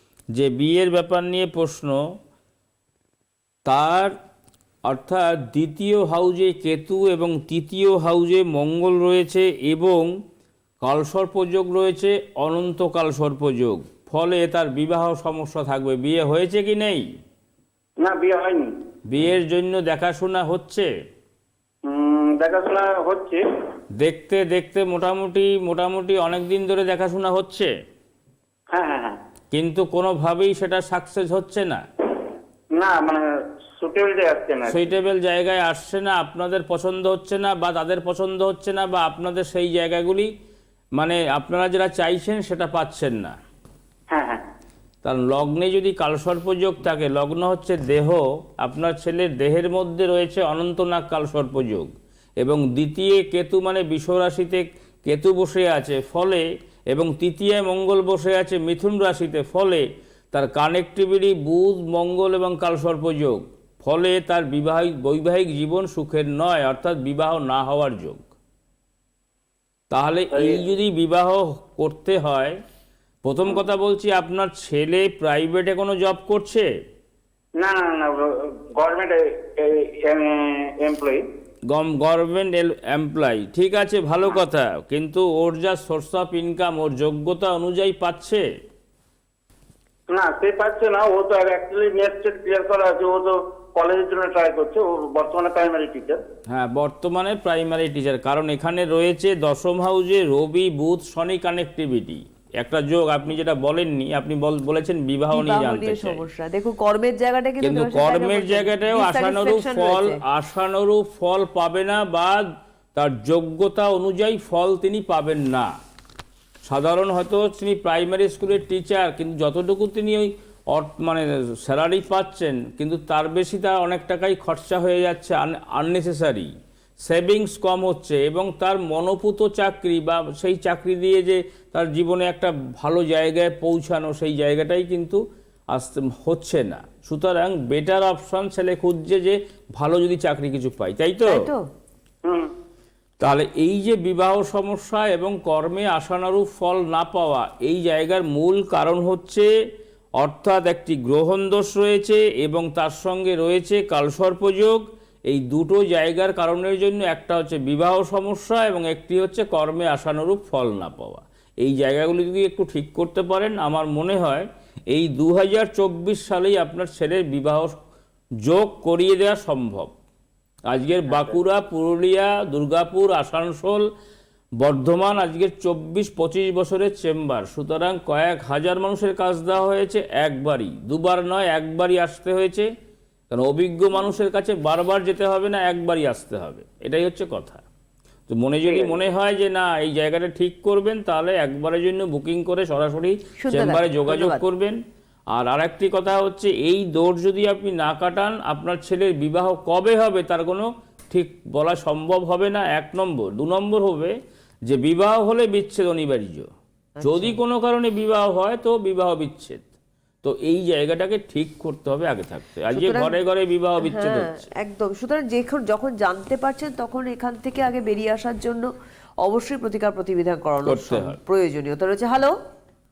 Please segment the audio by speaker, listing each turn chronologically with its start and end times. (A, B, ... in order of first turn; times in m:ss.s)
0:00.3-0:02.0 A
0:03.6-0:04.1 A
0:04.8-0:10.1 A
0:10.8-0:17.1 A
0:18.0-0:18.7 B
0:19.1-0:20.9 A
0:21.8-0:23.4 B
0:24.0-0:27.7 A
0:28.7-0:29.2 B
0:29.5-0:31.8 A
0:32.8-0:33.2 B
0:33.8-0:34.9 B
0:34.7-0:40.3 A
0:41.0-0:43.4 A
0:44.1-0:44.5 B
0:45.0-1:08.2 A
1:09.9-1:12.6 A
1:10.3-1:10.7 B
1:13.2-1:16.7 A
1:17.6-1:21.2 B
1:21.7-1:28.4 A
1:30.1-1:36.2 B
1:36.5-1:46.2 A
1:45.3-1:50.2 C
1:47.6-1:55.7 A
1:56.6-2:06.5 A
2:07.0-2:21.5 A
2:21.3-2:21.6 C
2:22.2-2:22.5 B
2:23.2-2:29.5 A
2:30.2-2:47.8 A
2:48.4-2:49.9 A
2:50.7-2:53.8 A
2:54.6-3:02.7 A
3:03.3-3:07.6 A
3:08.3-3:14.8 A
3:13.4-3:14.4 C
3:15.3-3:24.1 A
3:24.7-3:26.5 A
3:27.0-3:27.4 C
3:27.0-3:29.6 A
3:30.2-3:34.4 A
3:32.7-3:33.2 C
3:33.8-3:38.7 C
3:39.2-3:42.4 C
3:40.6-3:41.2 A